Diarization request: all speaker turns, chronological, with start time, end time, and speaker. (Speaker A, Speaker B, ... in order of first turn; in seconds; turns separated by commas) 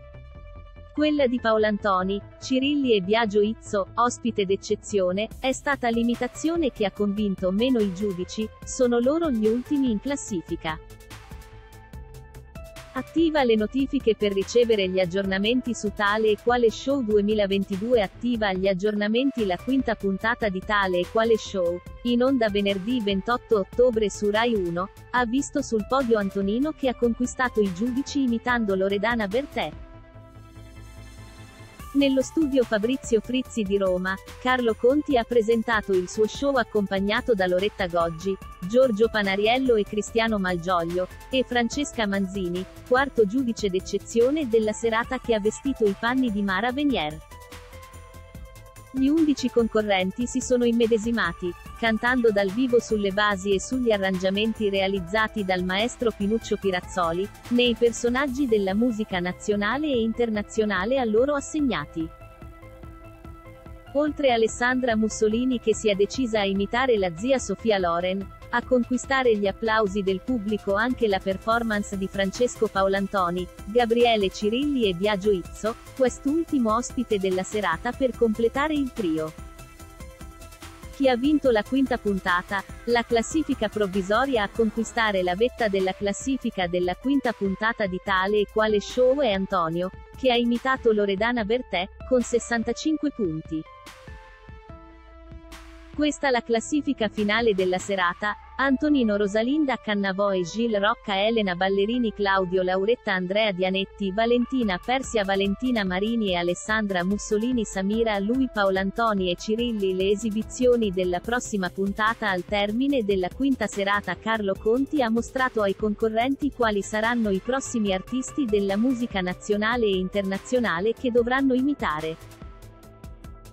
Speaker A: 0.9-10.8, Speaker A: 12.9-29.8, Speaker A: 31.9-47.2, Speaker A: 48.9-62.1, Speaker A: 63.9-79.4, Speaker A: 80.9-93.7, Speaker A: 95.9-122.2